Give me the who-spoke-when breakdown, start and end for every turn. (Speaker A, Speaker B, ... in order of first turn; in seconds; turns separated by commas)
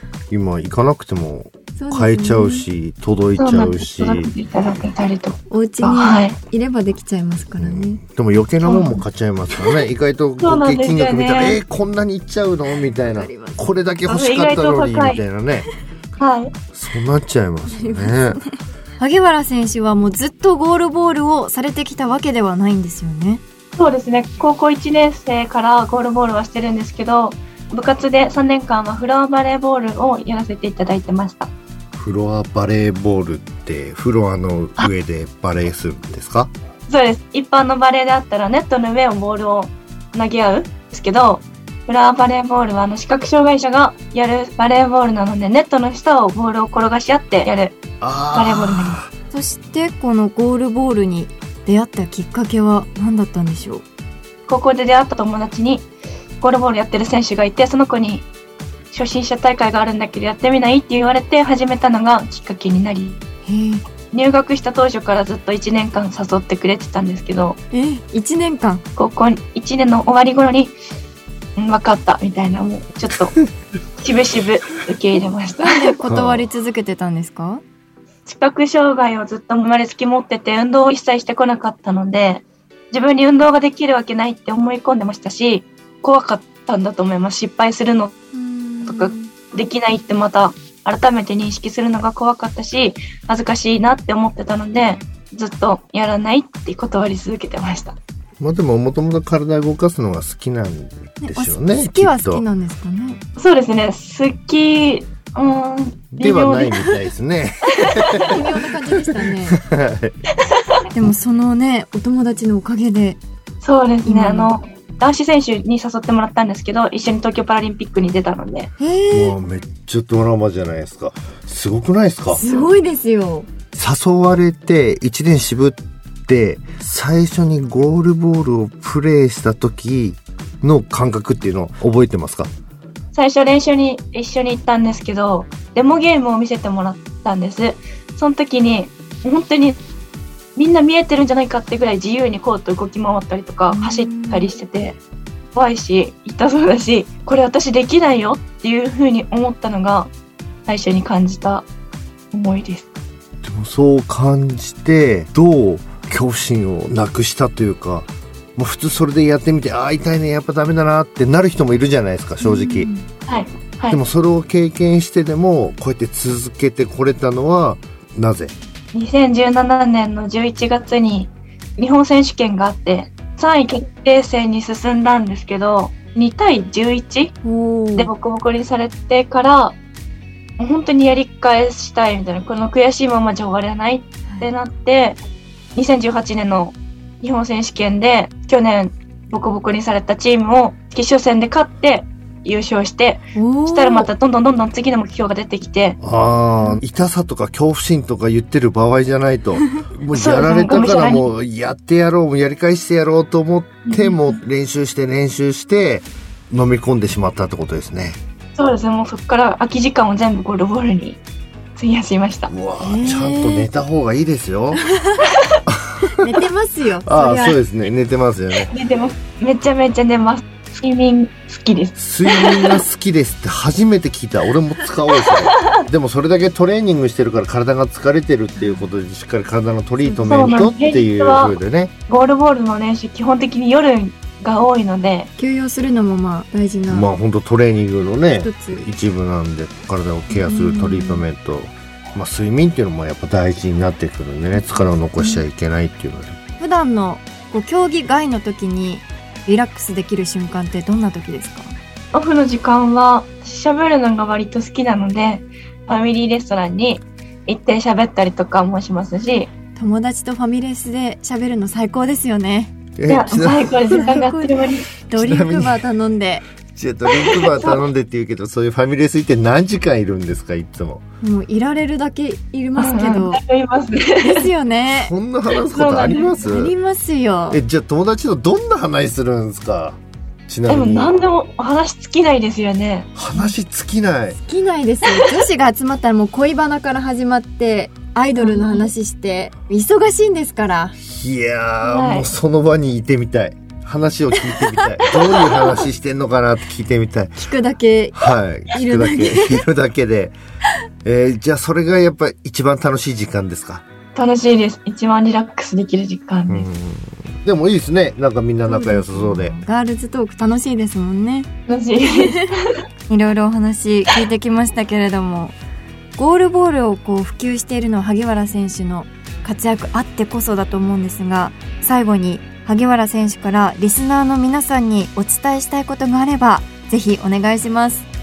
Speaker A: 0.3-4.3, Speaker B: 1.8-2.7, Speaker C: 3.4-6.4, Speaker B: 5.5-8.0, Speaker A: 7.6-15.7, Speaker C: 8.6-9.0, Speaker C: 10.4-11.6, Speaker B: 13.0-13.7, Speaker C: 14.1-15.2, Speaker C: 16.2-16.5, Speaker A: 16.7-18.4, Speaker B: 17.7-18.4, Speaker B: 19.0-23.4, Speaker C: 23.8-31.5, Speaker A: 31.9-36.5, Speaker C: 36.9-47.8, Speaker A: 48.0-49.1, Speaker C: 48.3-49.0, Speaker B: 49.3-53.8, Speaker C: 54.5-55.9, Speaker C: 56.4-58.3, Speaker C: 58.9-63.2, Speaker B: 63.5-63.8, Speaker C: 64.1-67.6, Speaker B: 67.7-68.8, Speaker C: 69.0-70.8, Speaker C: 71.6-73.4, Speaker C: 74.0-76.0, Speaker B: 75.6-77.6, Speaker A: 76.0-76.5, Speaker C: 78.2-88.2, Speaker B: 88.3-89.3, Speaker C: 88.8-98.0, Speaker A: 98.4-102.4, Speaker B: 101.2-103.2, Speaker C: 103.4-106.9, Speaker A: 106.2-108.4, Speaker B: 108.2-109.6, Speaker A: 109.4-110.1, Speaker B: 110.9-113.2, Speaker C: 113.6-118.7, Speaker B: 114.0-114.5, Speaker B: 118.8-119.4, Speaker A: 119.1-122.6, Speaker B: 122.3-123.5, Speaker A: 123.7-132.5, Speaker C: 133.1-139.8, Speaker C: 140.6-145.0, Speaker B: 143.7-144.5, Speaker C: 145.5-150.1, Speaker C: 150.7-151.6, Speaker C: 152.3-152.9, Speaker A: 153.4-162.9, Speaker B: 162.4-163.1, Speaker C: 163.3-164.0, Speaker A: 163.9-168.5, Speaker C: 168.9-177.4, Speaker B: 177.4-178.1, Speaker C: 177.9-179.8, Speaker C: 180.6-185.2, Speaker C: 185.7-196.0, Speaker B: 193.3-194.1, Speaker A: 196.0-208.2, Speaker C: 200.1-201.3, Speaker C: 203.8-204.3, Speaker C: 208.6-211.2, Speaker C: 211.8-212.5, Speaker A: 212.5-214.8, Speaker B: 212.8-213.7, Speaker B: 214.8-215.1, Speaker B: 216.2-217.6, Speaker A: 217.0-218.7, Speaker C: 218.7-222.8, Speaker A: 221.9-231.9, Speaker B: 230.0-230.7, Speaker C: 230.2-235.3, Speaker B: 235.4-237.1, Speaker A: 236.9-246.4, Speaker B: 238.4-238.8, Speaker B: 240.3-241.2, Speaker B: 244.6-245.4, Speaker B: 246.6-251.7, Speaker C: 252.1-259.5, Speaker B: 259.8-262.7, Speaker A: 263.0-264.2, Speaker C: 263.1-264.9, Speaker B: 263.9-266.4, Speaker A: 265.1-265.8, Speaker A: 266.7-271.0, Speaker C: 267.4-267.8, Speaker B: 271.2-273.4, Speaker C: 272.8-274.5, Speaker B: 274.2-275.1, Speaker A: 274.9-276.7, Speaker C: 275.5-276.4, Speaker B: 276.3-277.6, Speaker A: 277.5-281.2, Speaker C: 280.7-283.1, Speaker A: 283.1-284.4, Speaker B: 284.4-290.9, Speaker C: 285.0-285.4, Speaker C: 288.3-288.9, Speaker A: 291.0-297.4, Speaker C: 291.8-292.3, Speaker B: 294.4-295.1, Speaker B: 297.4-299.6, Speaker A: 298.1-300.4, Speaker A: 301.0-303.8, Speaker C: 304.1-306.7, Speaker A: 306.5-309.6, Speaker B: 308.6-311.5, Speaker C: 311.7-312.6, Speaker B: 312.0-312.4, Speaker B: 313.1-315.5, Speaker B: 316.1-328.1